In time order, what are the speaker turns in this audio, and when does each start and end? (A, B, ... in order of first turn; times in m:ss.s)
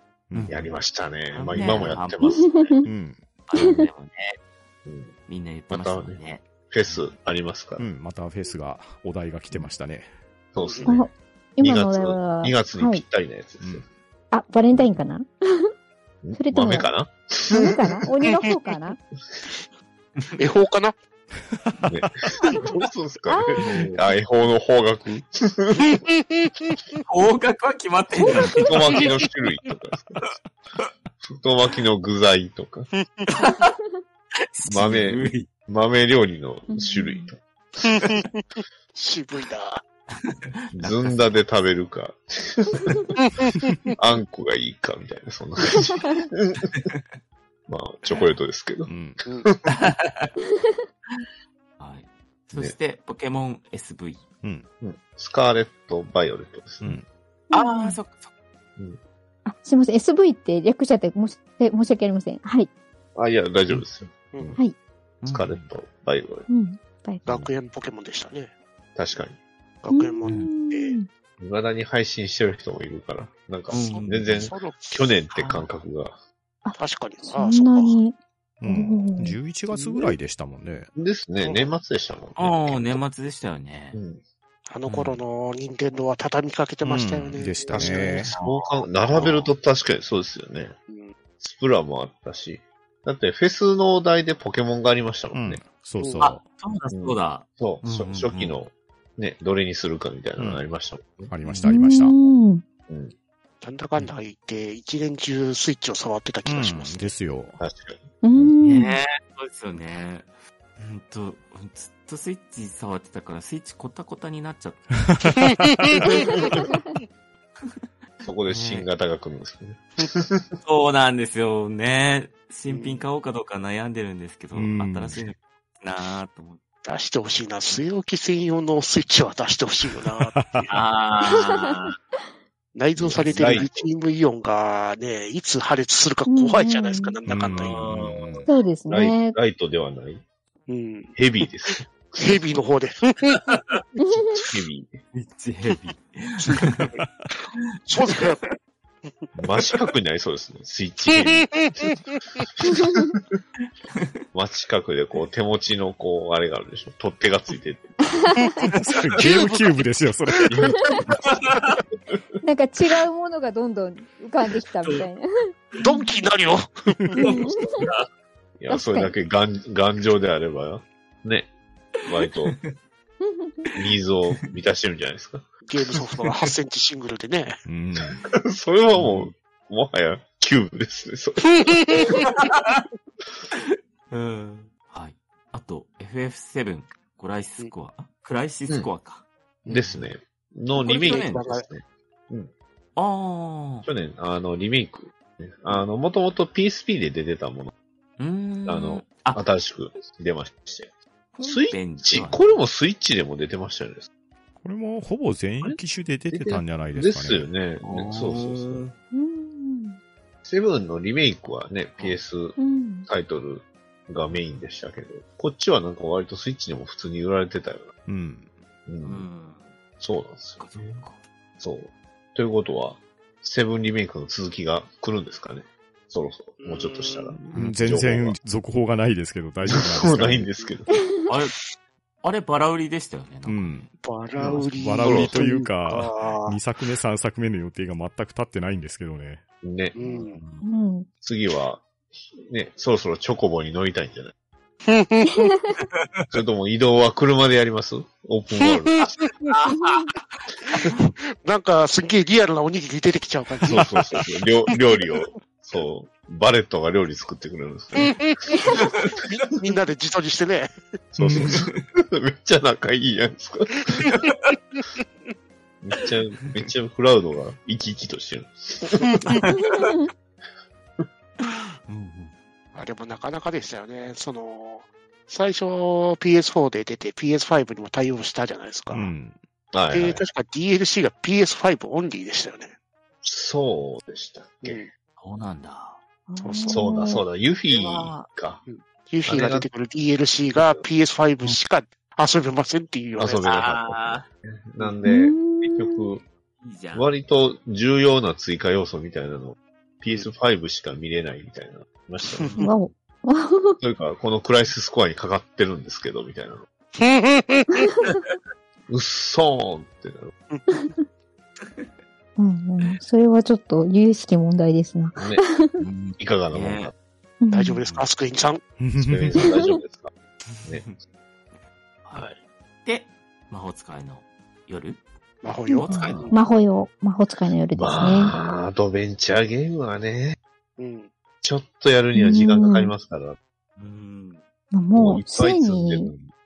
0:00.3-0:00.6 A
0:00.3-0:00.7 B
0:00.5-0:02.7 C
0:01.3-0:02.3 B
0:02.2-0:02.9 D
0:02.8-0:03.2 A
0:03.5-0:04.4 B
0:04.8-0:05.1 C
0:05.3-0:07.1 B
0:05.7-0:07.8 C
0:07.8-0:10.1 A
0:10.5-0:11.0 C
0:10.6-0:11.0 E
0:10.8-0:13.0 D
0:11.6-0:13.8 C
0:14.3-0:15.7 D
0:16.2-0:17.8 C
0:16.3-0:16.9 D
0:17.5-0:19.0 D
0:20.4-0:20.9 E
0:21.6-0:22.3 A
0:21.8-0:26.0 C
0:23.3-0:23.6 D
0:23.6-0:24.0 B
0:25.9-0:27.0 E
0:27.1-0:28.8 B
0:28.2-0:28.7 D
0:28.5-0:30.4 C
0:28.6-0:29.3 E
0:31.2-0:32.9 C
0:32.9-0:33.5 E
0:33.3-0:33.8 B
0:34.6-0:35.5 B
0:34.7-0:37.4 C
0:36.7-0:37.3 D
0:37.8-0:39.8 E
0:40.2-0:41.3 B
0:40.7-0:43.1 C
0:43.2-0:43.9 E
0:43.9-0:46.9 C
0:46.7-0:47.0 B
0:47.7-0:48.9 C
0:48.9-0:49.2 A
0:49.2-0:49.5 E
0:49.5-0:49.8 C
0:49.7-0:50.3 B
0:50.4-0:50.8 D
0:51.8-0:54.2 B
0:54.4-0:54.7 A
0:54.8-0:57.0 C
0:57.5-0:58.0 D
0:57.5-0:58.3 B
0:59.4-1:02.7 D
1:03.2-1:04.6 C
1:04.3-1:04.6 E
1:05.2-1:05.7 B
1:05.3-1:06.5 C
1:06.5-1:07.2 D
1:07.2-1:08.5 E
1:09.0-1:09.4 C
1:09.8-1:11.0 E
1:09.9-1:11.1 D
1:10.2-1:10.5 B
1:11.4-1:16.2 C
1:13.7-1:14.5 B
1:13.7-1:15.1 E
1:15.3-1:15.7 B
1:16.6-1:19.4 D
1:16.8-1:18.0 E
1:18.6-1:20.9 A
1:19.7-1:20.1 C
1:21.0-1:23.0 C
1:21.4-1:21.7 E
1:22.4-1:24.0 B
1:23.9-1:24.2 C
1:24.7-1:28.3 E
1:24.9-1:25.2 B
1:26.8-1:28.3 A
1:27.7-1:30.8 C
1:28.3-1:29.5 B
1:30.9-1:31.1 E
1:31.4-1:35.6 C
1:35.3-1:36.4 A
1:36.0-1:36.3 E
1:36.2-1:38.6 B
1:36.9-1:41.3 C
1:40.4-1:40.7 A
1:41.3-1:42.1 A
1:41.4-1:41.7 B
1:41.6-1:42.6 D
1:42.9-1:43.1 C
1:43.6-1:47.1 E
1:46.4-1:47.6 A
1:47.6-1:48.5 C
1:48.2-1:49.0 D
1:48.6-1:55.1 B
1:55.0-1:56.0 A
1:55.4-1:57.0 E
1:56.0-1:56.6 C
1:56.3-1:56.5 D
1:58.2-2:00.6 C
1:58.5-1:58.8 B
2:00.6-2:06.6 B
2:02.7-2:03.0 E
2:04.5-2:05.2 A
2:06.8-2:10.8 E
2:10.3-2:10.7 A
2:10.7-2:12.0 B
2:12.7-2:17.9 E
2:13.0-2:13.9 C
2:13.2-2:13.6 B
2:16.3-2:17.2 D
2:17.3-2:18.5 A
2:17.4-2:18.5 B
2:18.5-2:19.4 D
2:18.9-2:20.2 C
2:20.7-2:21.1 E
2:21.1-2:22.1 C
2:22.2-2:23.4 E
2:23.3-2:23.8 B
2:24.0-2:24.4 D
2:24.2-2:25.0 C
2:25.1-2:27.0 B
2:26.4-2:28.5 E
2:27.0-2:27.3 A
2:27.6-2:28.4 B
2:29.0-2:29.3 E
2:29.4-2:31.9 C
2:31.1-2:32.4 E
2:32.4-2:33.4 C
2:32.6-2:33.1 D
2:34.3-2:38.3 C
2:38.1-2:38.7 D
2:38.4-2:39.7 E
2:38.8-2:40.9 A
2:40.5-2:41.4 C
2:41.2-2:41.8 B
2:41.9-2:42.2 C
2:42.4-2:45.2 D
2:45.8-2:46.8 E
2:47.2-2:47.8 D
2:47.2-2:48.1 B
2:48.6-2:51.5 C
2:48.7-2:49.1 D
2:52.0-2:52.6 C
2:53.2-2:53.6 D
2:53.8-2:55.5 C
2:55.7-2:57.6 E
2:56.2-2:56.4 B
2:57.7-2:58.2 A
2:58.3-3:02.2 C
2:58.9-2:59.3 B
3:01.4-3:02.2 E
3:02.1-3:02.9 B
3:03.6-3:10.1 B
3:09.7-3:12.5 C
3:10.8-3:11.4 B
3:10.9-3:11.7 E
3:13.0-3:13.9 B
3:13.8-3:17.7 C
3:18.2-3:19.5 B
3:18.6-3:20.9 C
3:21.3-3:22.6 B
3:21.4-3:24.1 C
3:24.6-3:27.5 A
3:26.3-3:28.8 C
3:27.8-3:28.9 B
3:29.1-3:30.0 D
3:30.4-3:37.9 C
3:32.6-3:33.1 D
3:38.0-3:38.5 A
3:38.9-3:39.3 C
3:39.0-3:39.7 B
3:40.0-3:41.0 C
3:40.6-3:41.2 B
3:41.6-3:48.3 C
3:46.6-3:47.4 E
3:47.5-3:50.5 A
3:49.7-3:51.0 C
3:51.3-3:51.6 B
3:52.2-3:53.7 B
3:53.4-3:53.9 A
3:54.0-3:56.6 E
3:54.4-3:55.5 C
3:54.8-3:59.4 A
3:59.6-3:59.9 C
3:59.9-4:00.4 E
4:00.0-4:00.6 B
4:00.6-4:01.1 D
4:01.2-4:04.3 C
4:04.9-4:05.5 E
4:05.3-4:05.8 D
4:06.3-4:09.2 C
4:08.5-4:09.6 E
4:09.5-4:10.4 B
4:09.7-4:10.1 D
4:10.7-4:13.9 E
4:13.6-4:19.0 C
4:17.9-4:18.4 E
4:18.5-4:18.8 D
4:18.9-4:20.7 E
4:21.1-4:24.1 C
4:21.2-4:21.6 A
4:21.4-4:21.8 B
4:23.9-4:25.3 E
4:24.2-4:24.5 B
4:25.8-4:29.4 C
4:28.8-4:29.4 E
4:29.3-4:29.9 B
4:29.5-4:30.1 D
4:31.4-4:32.4 B
4:32.7-4:39.0 E
4:38.9-4:39.4 A
4:39.7-4:40.2 C
4:39.9-4:42.7 E
4:43.2-4:44.8 C
4:44.6-4:44.9 E
4:45.2-4:46.0 B
4:46.3-4:47.2 D
4:46.4-4:47.0 E
4:46.7-4:48.6 C
4:47.7-4:48.2 B
4:48.6-4:53.4 E
4:49.2-4:49.7 C
4:50.5-4:50.8 C
4:53.2-4:56.2 C
4:53.3-4:54.3 B
4:55.0-4:56.1 D
4:56.6-4:57.1 B
4:56.9-5:02.5 C
5:02.2-5:02.5 E
5:02.4-5:02.7 B
5:02.6-5:03.8 D
5:03.8-5:06.6 C
5:07.0-5:07.9 E
5:07.7-5:08.2 D
5:08.9-5:10.3 C
5:10.5-5:10.9 E
5:10.7-5:11.0 D
5:12.4-5:15.8 D
5:15.1-5:15.4 C
5:15.8-5:16.9 B
5:16.2-5:16.9 C
5:17.4-5:17.8 D
5:17.5-5:18.6 E
5:18.8-5:19.4 A
5:19.0-5:20.1 C
5:20.5-5:21.0 B
5:22.0-5:25.0 B
5:25.4-5:26.4 E
5:25.7-5:28.3 D
5:25.8-5:26.3 B
5:27.8-5:30.4 C
5:30.8-5:31.1 E
5:31.4-5:33.4 C
5:32.1-5:32.9 D
5:33.8-5:34.4 B
5:34.7-5:36.1 D
5:34.9-5:36.3 C